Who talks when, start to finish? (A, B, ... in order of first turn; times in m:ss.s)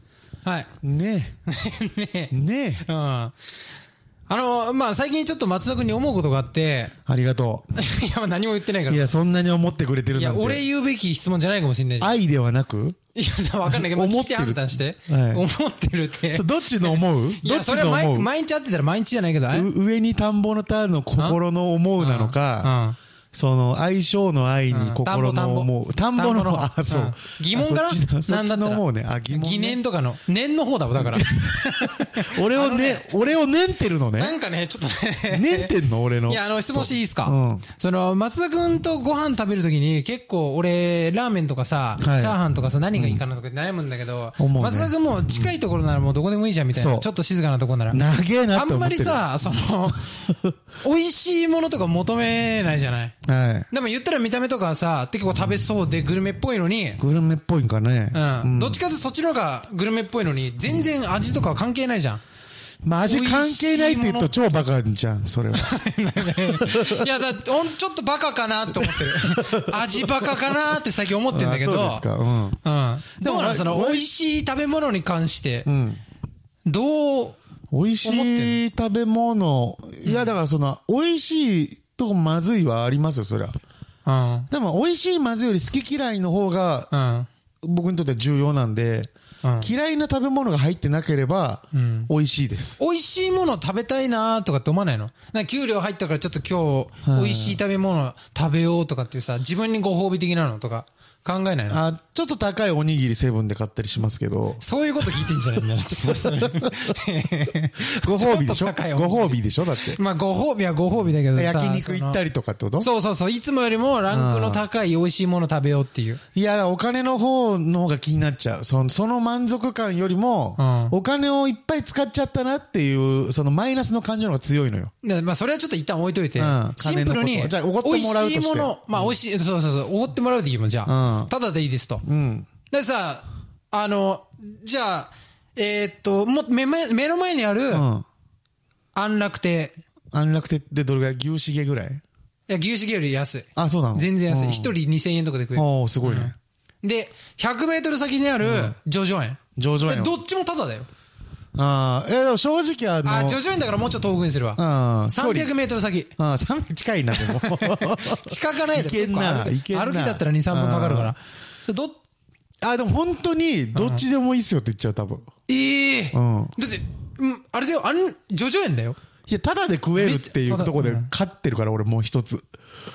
0:00.4-0:00.7 A
0:00.8-0:01.4 B
0:01.5-0:03.3 A
0:02.3-0:02.8 B
0:04.3-0:06.9 A
0:07.0-0:07.7 B
0:07.7-0:09.1 A
0:08.9-0:10.6 B
0:10.1-0:12.2 A
0:12.0-0:13.0 B
0:13.1-0:19.7 A
0:13.7-0:15.4 B
0:16.3-0:18.3 B
0:19.5-0:22.8 B
0:22.0-0:23.0 A
0:23.3-0:29.8 B
0:24.7-0:33.3 A
0:31.0-0:34.4 B
0:34.2-0:35.7 A
0:35.3-0:37.6 B
0:36.2-0:53.1 A
0:42.0-0:42.4 B
0:42.9-0:43.2 B
0:44.4-0:45.5 B
0:46.7-0:47.1 B
0:47.9-0:49.6 B
0:50.2-0:50.5 B
0:53.2-0:53.7 B
0:53.7-0:57.0 A
0:57.0-0:58.8 B
0:58.1-1:02.2 A
1:02.8-1:07.1 B
1:03.0-1:04.3 A
1:05.6-1:12.1 A
1:08.8-1:10.5 B
1:11.3-1:12.6 B
1:12.6-1:15.7 A
1:13.2-1:14.0 B
1:15.6-1:16.0 B
1:16.6-1:17.4 A
1:17.7-1:23.5 B
1:18.0-1:18.6 A
1:20.0-1:20.3 A
1:24.0-1:24.5 A
1:24.5-1:26.9 B
1:26.9-1:27.3 A
1:27.6-1:32.8 B
1:29.4-1:29.7 A
1:31.7-1:32.1 A
1:32.8-1:41.8 A
1:37.0-1:37.6 B
1:41.7-1:47.0 B
1:44.6-1:52.2 A
1:47.8-1:50.0 B
1:51.3-1:52.9 B
1:52.8-1:56.2 A
1:54.1-1:54.6 B
1:56.3-2:04.9 B
2:00.6-2:00.9 A
2:05.0-2:12.0 A
2:06.4-2:09.2 B
2:10.8-2:11.3 B
2:12.0-2:12.5 B
2:12.7-2:17.9 A
2:17.7-2:18.0 B
2:18.9-2:19.8 A
2:20.1-2:22.0 B
2:22.5-2:30.9 A
2:23.6-2:24.7 B
2:25.5-2:26.3 B
2:28.4-2:28.8 B
2:29.6-2:30.2 B
2:31.5-2:33.4 B
2:33.0-2:36.1 A
2:34.6-2:35.5 B
2:36.2-2:41.1 B
2:37.2-2:42.0 A
2:42.6-2:45.3 B
2:43.7-2:44.0 A
2:45.5-2:49.0 A
2:46.1-2:46.5 B
2:49.3-2:52.4 B
2:50.0-2:51.1 A